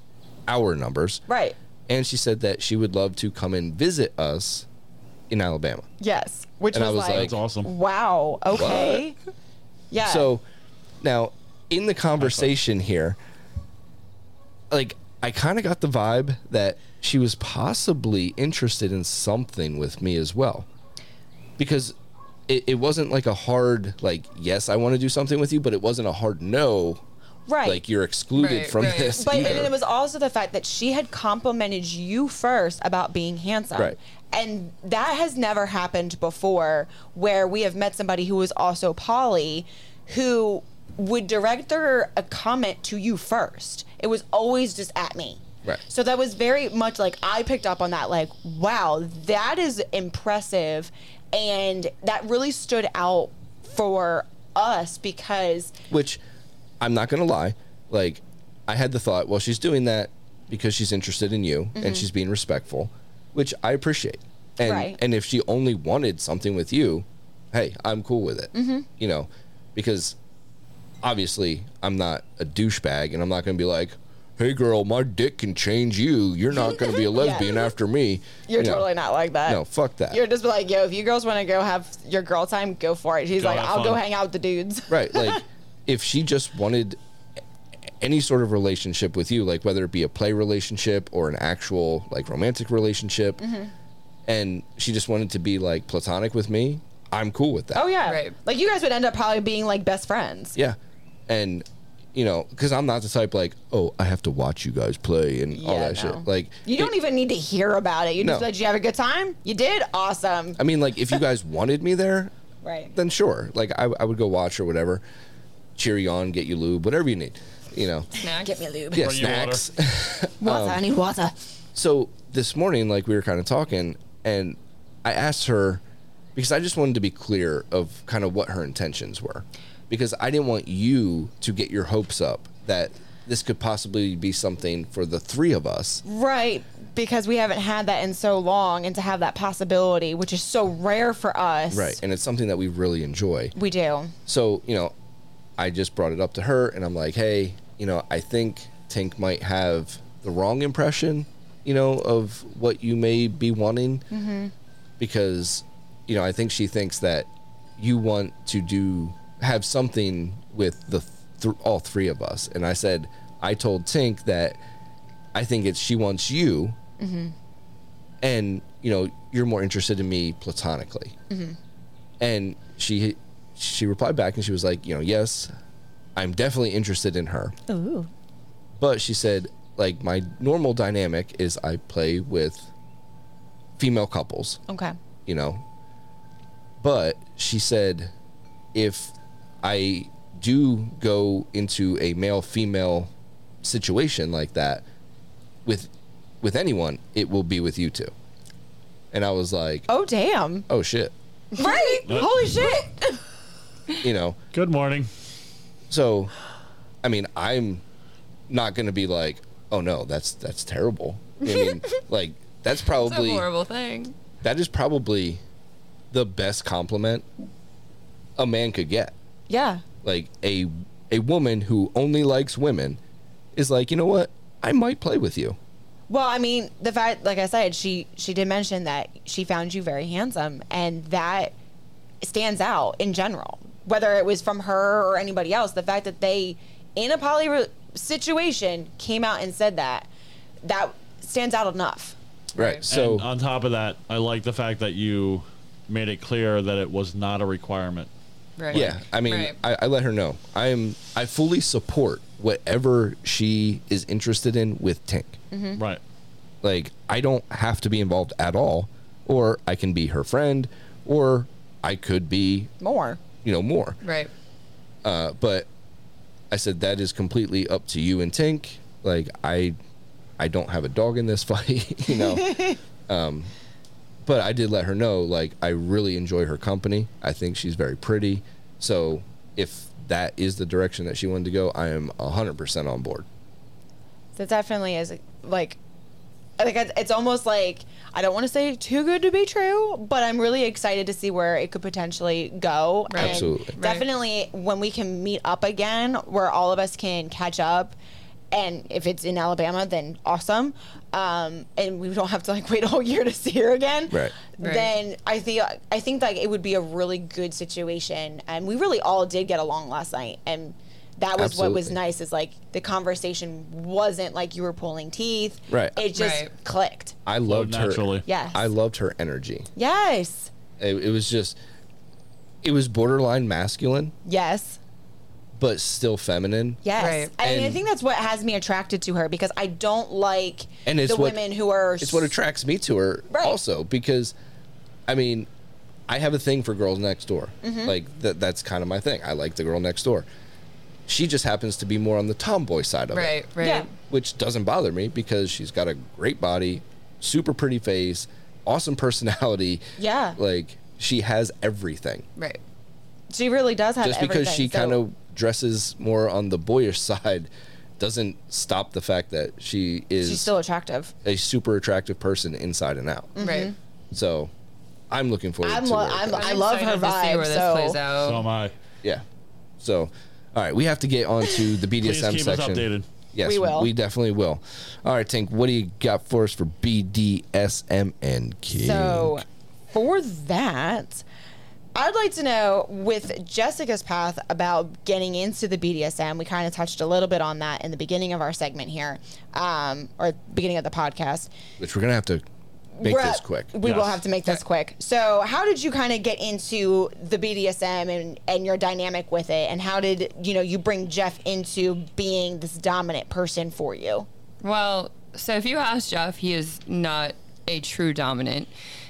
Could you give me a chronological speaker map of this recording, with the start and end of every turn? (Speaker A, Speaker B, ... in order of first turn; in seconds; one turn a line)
Speaker A: 0.5-1.2
Speaker B: 1.3-1.6
Speaker A: 1.9-4.7
Speaker A: 5.3-5.8
Speaker B: 6.0-9.2
Speaker A: 6.7-7.4
Speaker C: 7.1-7.7
Speaker A: 8.5-9.0
Speaker B: 9.9-10.3
Speaker A: 10.0-10.4
Speaker A: 11.0-13.2
Speaker C: 12.2-12.4
Speaker A: 14.7-20.7
Speaker A: 21.6-21.9
Speaker A: 22.5-27.0
Speaker B: 27.5-27.8
Speaker A: 27.6-29.7
Speaker D: 28.3-29.7
Speaker B: 29.1-55.7
Speaker A: 55.9-56.2
Speaker A: 56.8-70.2
Speaker B: 61.7-62.0
Speaker B: 64.6-65.0
Speaker B: 68.5-68.9
Speaker A: 71.0-78.9
Speaker B: 77.0-77.7
Speaker B: 78.5-85.4
Speaker A: 79.5-80.2
Speaker C: 83.4-84.0
Speaker A: 84.9-87.0
Speaker A: 88.0-93.4
Speaker B: 93.4-93.7
Speaker A: 94.2-97.9
Speaker B: 97.7-100.5
Speaker D: 98.0-98.3
Speaker A: 101.3-106.9
Speaker B: 105.5-110.6
Speaker A: 108.2-108.5
Speaker A: 110.6-112.3
Speaker B: 112.6-112.9
Speaker A: 112.9-115.0
Speaker A: 115.8-118.1
Speaker B: 118.2-119.1
Speaker D: 118.2-118.6
Speaker A: 118.9-120.8
Speaker C: 119.0-119.6
Speaker B: 120.4-121.3
Speaker A: 121.7-125.8
Speaker A: 126.3-136.0
Speaker B: 136.0-142.0
Speaker A: 141.7-143.5
Speaker B: 143.6-144.1
Speaker A: 144.3-144.9
Speaker A: 145.6-154.1
Speaker B: 154.1-154.5
Speaker A: 155.0-164.6
Speaker A: 165.3-166.8
Speaker B: 167.0-167.3
Speaker A: 168.2-171.1
Speaker B: 171.3-171.6
Speaker A: 172.2-175.5
Speaker A: 176.2-177.5
Speaker B: 177.7-178.1
Speaker A: 178.8-182.7
Speaker A: 183.8-184.6
Speaker B: 184.7-184.9
Speaker A: 185.2-185.6
Speaker A: 186.8-188.1
Speaker A: 188.7-193.1
Speaker A: 193.6-194.8
Speaker A: 195.6-198.1
Speaker A: 199.1-199.9
Speaker B: 199.9-200.7
Speaker A: 200.7-201.1
Speaker B: 201.5-203.2
Speaker C: 202.1-202.4
Speaker A: 204.0-204.4
Speaker C: 204.5-205.1
Speaker A: 205.9-206.3
Speaker A: 207.0-207.8
Speaker A: 208.5-213.5
Speaker D: 213.0-214.1
Speaker A: 214.4-215.4
Speaker A: 216.1-217.2
Speaker A: 218.4-219.1
Speaker B: 219.5-219.8
Speaker A: 220.0-223.0
Speaker A: 223.5-225.6
Speaker B: 226.1-231.5
Speaker B: 232.2-240.1
Speaker B: 240.6-242.2
Speaker A: 242.5-243.3
Speaker D: 242.6-242.8
Speaker C: 242.9-248.1
Speaker D: 248.6-249.6
Speaker A: 248.7-255.4
Speaker B: 255.5-255.8
Speaker C: 255.8-256.0
Speaker A: 256.6-262.7
Speaker B: 262.8-263.2
Speaker A: 263.4-264.0
Speaker D: 264.0-264.3
Speaker A: 265.0-265.7
Speaker A: 266.5-269.7
Speaker A: 270.4-273.5
Speaker B: 272.1-272.8
Speaker A: 274.2-283.2
Speaker B: 284.4-285.8
Speaker B: 286.6-297.9
Speaker D: 293.1-294.1
Speaker A: 293.2-293.7
Speaker B: 298.5-317.1
Speaker A: 304.1-304.4
Speaker D: 304.6-304.9
Speaker A: 311.4-311.9
Speaker A: 315.7-316.0
Speaker D: 316.1-316.5
Speaker A: 317.2-319.7
Speaker C: 317.5-318.2
Speaker B: 318.2-318.7
Speaker B: 319.8-320.5
Speaker A: 320.8-321.6
Speaker A: 322.6-324.1
Speaker B: 324.2-324.8
Speaker A: 325.6-326.8
Speaker B: 326.8-332.3
Speaker D: 327.0-327.3
Speaker A: 327.4-327.8
Speaker A: 330.9-331.4
Speaker A: 332.0-334.3
Speaker B: 333.3-333.6
Speaker A: 335.1-335.5
Speaker A: 336.1-340.2
Speaker B: 337.6-337.9
Speaker A: 341.1-343.4
Speaker D: 343.1-343.9
Speaker B: 343.6-343.9
Speaker A: 344.1-349.8
Speaker B: 350.0-350.4
Speaker A: 350.3-352.2
Speaker B: 353.3-355.0
Speaker A: 354.0-360.5
Speaker B: 360.2-361.1
Speaker A: 361.2-363.4
Speaker B: 363.4-363.7
Speaker D: 363.4-363.7
Speaker A: 364.1-364.5
Speaker A: 365.1-366.5
Speaker B: 365.6-368.0
Speaker D: 366.3-368.4
Speaker C: 368.1-368.7
Speaker A: 369.8-379.4
Speaker C: 372.0-373.0
Speaker B: 373.4-373.9
Speaker B: 378.7-381.2
Speaker B: 381.9-391.5
Speaker A: 391.8-392.4
Speaker B: 393.0-404.3
Speaker A: 393.0-393.7
Speaker C: 393.8-394.2
Speaker D: 404.6-408.7